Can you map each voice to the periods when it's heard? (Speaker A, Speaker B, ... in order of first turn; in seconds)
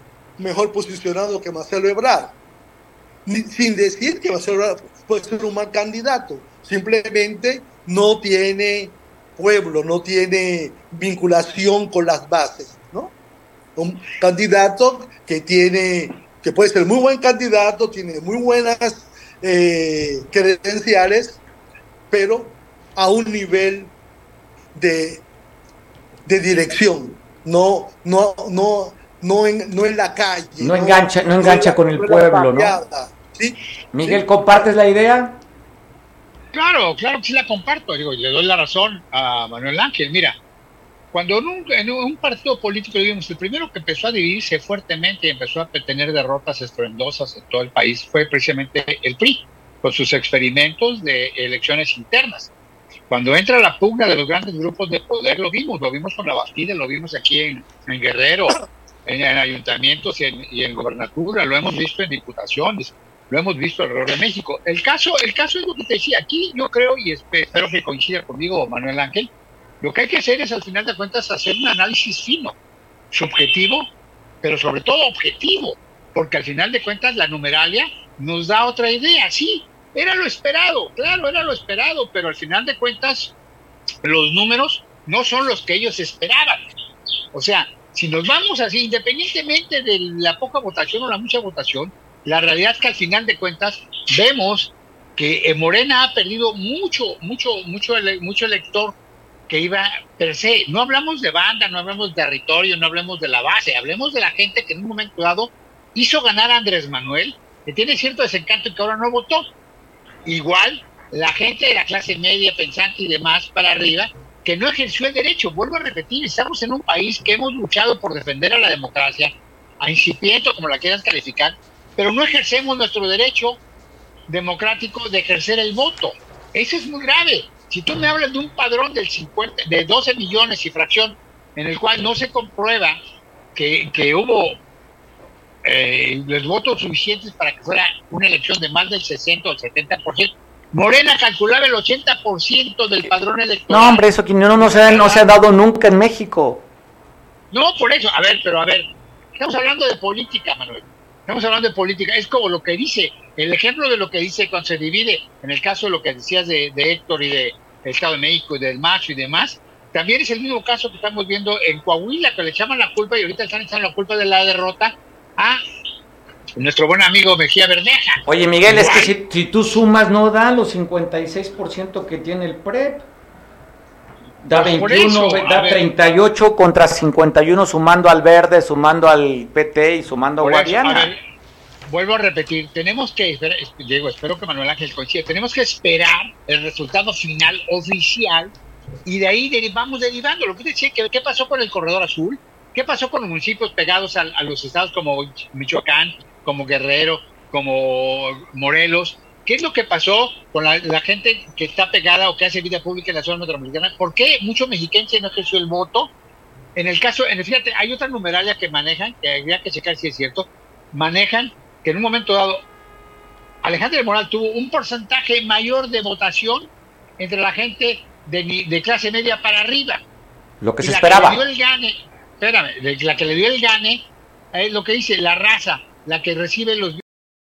Speaker A: 0.4-2.3, 3.3-13.1, 13.8-21.4, 22.1-23.9, 24.8-25.2, 26.3-34.6
Speaker B: 30.6-32.8, 33.9-35.4, 143.7-146.6, 168.3-173.1, 174.4-181.1, 220.6-221.4
Speaker C: 36.5-40.4, 41.1-52.5, 53.1-69.3, 69.8-72.5, 73.1-73.9, 74.4-83.3, 84.0-86.6, 87.3-99.0, 99.5-109.5, 110.2-123.6, 124.3-133.0, 133.6-134.6, 135.6-144.0, 144.6-145.3, 147.5-165.6, 166.6-169.1, 174.5-175.8, 180.4-181.2, 181.9-188.5, 189.1-206.1, 206.8-212.6, 213.6-220.0, 220.8-227.0